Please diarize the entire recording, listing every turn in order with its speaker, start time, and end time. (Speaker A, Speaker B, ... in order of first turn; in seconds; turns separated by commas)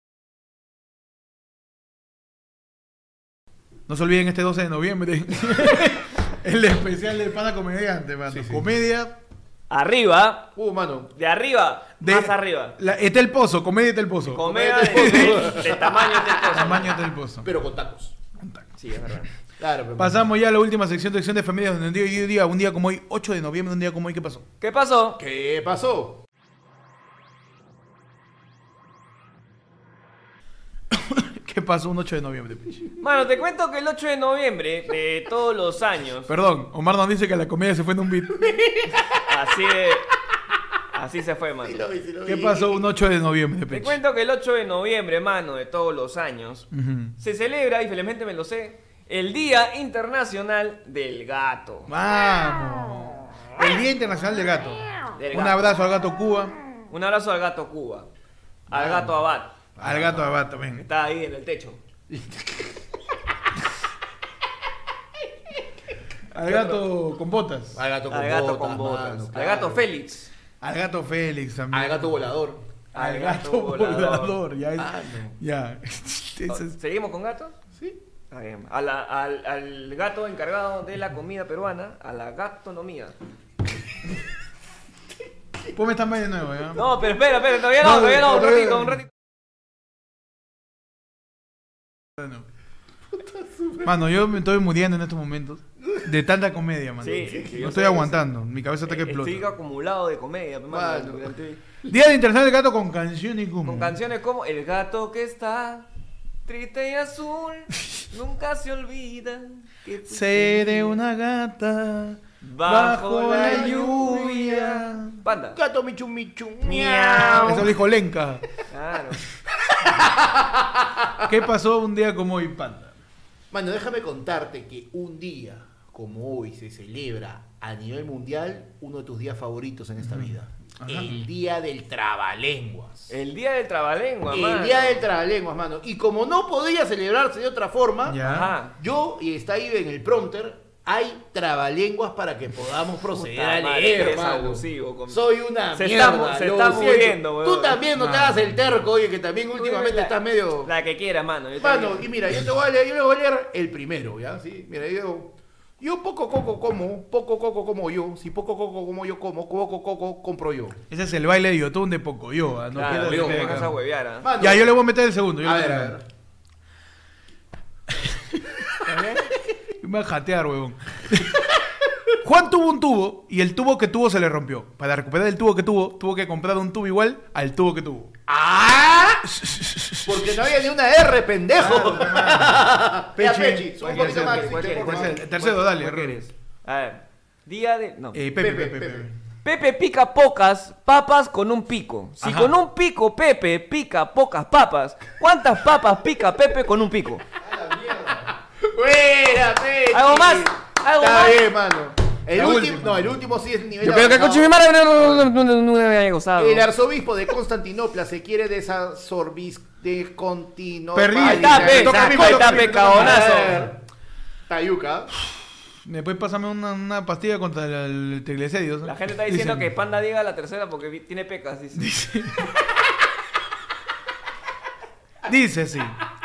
Speaker A: 3.9-9.2, Speaker B: 8.3-8.7, Speaker C: 9.7-10.5, Speaker B: 10.6-11.1, Speaker C: 11.1-12.8, Speaker A: 12.0-15.4, Speaker C: 14.3-16.9, Speaker B: 14.4-16.9, Speaker A: 16.5-17.5, Speaker B: 17.4-18.1, Speaker A: 18.4-18.7, Speaker C: 18.8-19.3, Speaker B: 19.6-20.3, Speaker A: 20.0-24.5, Speaker C: 24.6-25.2, Speaker B: 25.2-26.2, Speaker A: 30.9-32.9, Speaker C: 33.0-36.3, Speaker A: 36.3-38.5, Speaker B: 38.4-39.2, Speaker C: 39.2-40.1, Speaker C: 40.9-41.8, Speaker B: 41.6-42.9, Speaker A: 42.2-44.0, Speaker C: 43.7-46.7, Speaker A: 46.7-47.2, Speaker C: 47.2-51.9, Speaker A: 51.9-56.5, Speaker C: 55.1-55.8, Speaker C: 56.9-58.1, Speaker B: 58.7-59.1, Speaker C: 58.7-59.5, Speaker B: 59.8-60.4, Speaker A: 59.8-60.8, Speaker C: 60.8-61.8, Speaker B: 62.1-62.9, Speaker A: 66.3-67.8, Speaker C: 66.5-66.8, Speaker B: 67.7-69.8, Speaker C: 68.1-70.3, Speaker A: 70.6-72.1, Speaker B: 71.7-72.6, Speaker C: 72.9-74.4, Speaker A: 72.9-76.7, Speaker B: 74.8-75.4, Speaker C: 76.5-77.5, Speaker C: 78.3-83.2, Speaker A: 85.7-86.9, Speaker C: 86.7-89.1, Speaker A: 87.8-89.0, Speaker A: 92.2-92.4, Speaker B: 93.2-94.0, Speaker A: 93.8-99.5, Speaker C: 97.0-98.2, Speaker C: 98.8-101.6, Speaker B: 100.7-101.3, Speaker A: 101.8-104.0, Speaker C: 103.6-105.9, Speaker C: 106.5-111.0, Speaker A: 110.1-115.2, Speaker C: 112.4-115.6, Speaker B: 113.4-114.1, Speaker B: 115.5-117.8, Speaker C: 116.6-117.7, Speaker A: 117.4-118.5, Speaker C: 118.7-119.2, Speaker B: 119.8-121.3, Speaker A: 121.3-123.0, Speaker B: 123.5-133.1, Speaker A: 130.0-131.1, Speaker C: 133.1-135.0, Speaker B: 134.3-150.7, Speaker A: 138.1-138.5, Speaker C: 138.2-138.8, Speaker C: 143.1-145.2, Speaker C: 145.7-147.8, Speaker A: 147.9-148.4, Speaker C: 149.6-152.1, Speaker B: 151.6-160.8, Speaker A: 160.9-163.7, Speaker C: 162.7-164.3, Speaker B: 164.2-164.8, Speaker A: 164.4-165.9, Speaker B: 165.4-166.0, Speaker A: 167.9-168.6, Speaker C: 168.8-169.3, Speaker A: 169.8-171.5, Speaker A: 172.2-178.1, Speaker B: 178.3-179.3, Speaker A: 179.2-180.7, Speaker B: 180.1-185.2, Speaker A: 181.6-186.2, Speaker C: 183.8-188.2, Speaker A: 188.1-189.1, Speaker B: 188.4-189.1, Speaker C: 189.4-197.2, Speaker A: 192.2-192.5, Speaker B: 197.4-205.2, Speaker C: 199.9-201.5, Speaker A: 202.3-203.1, Speaker C: 203.8-206.7, Speaker B: 206.4-213.8, Speaker A: 210.9-213.6, Speaker C: 211.2-213.6, Speaker B: 214.5-215.1, Speaker A: 215.8-219.7, Speaker C: 218.8-221.9, Speaker A: 221.8-222.5, Speaker A: 225.2-226.0